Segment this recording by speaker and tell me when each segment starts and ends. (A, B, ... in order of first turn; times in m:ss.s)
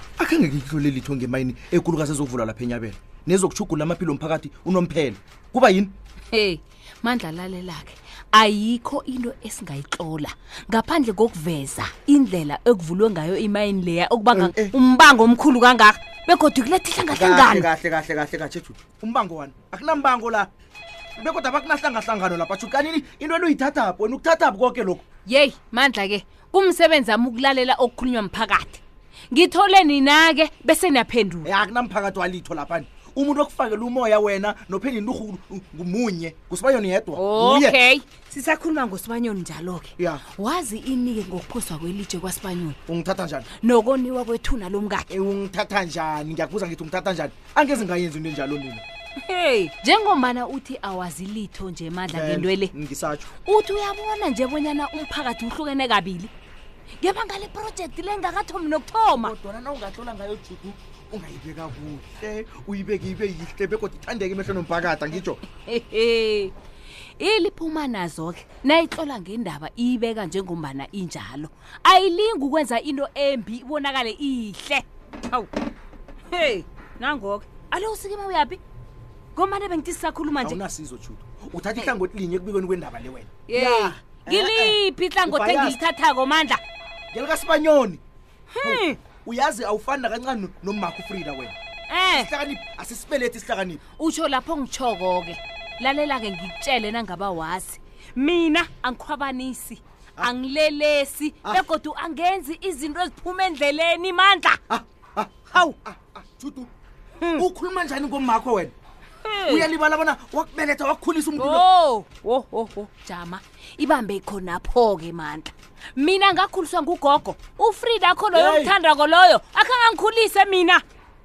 0:00.2-0:05.9 A
0:06.3-0:17.7 B
0:14.3-0:14.7 A
0:17.1-0:20.5 A
0:21.2-0:25.0 A
0:25.2-0:28.8 B
0:29.3-0:31.5 B
0:31.4-0:37.8 A
0:37.2-0:42.8 B
0:42.9-0:43.4 A
0:43.6-0:45.1 B
0:45.1-0:48.8 A
0:49.2-0:52.7 B
0:52.1-0:53.3 A
0:53.4-0:56.3 B
0:57.0-0:59.4 B
0:59.1-1:05.4 A
1:05.6-1:06.5 B
1:07.2-1:15.5 B
1:16.3-1:18.6 B
1:19.3-1:20.6 B
1:20.4-1:25.8 A
1:23.5-1:26.6 B
1:27.1-1:28.0 A
1:28.5-1:29.0 B
1:28.6-1:31.5 A
1:31.9-1:32.3 B
1:32.1-1:33.8 A
1:34.0-1:44.6 B
1:44.7-1:46.7 A
1:47.4-1:48.7 A
1:49.2-1:49.6 B
1:49.4-1:51.6 A
1:51.4-2:00.8 B
1:58.3-1:58.7 A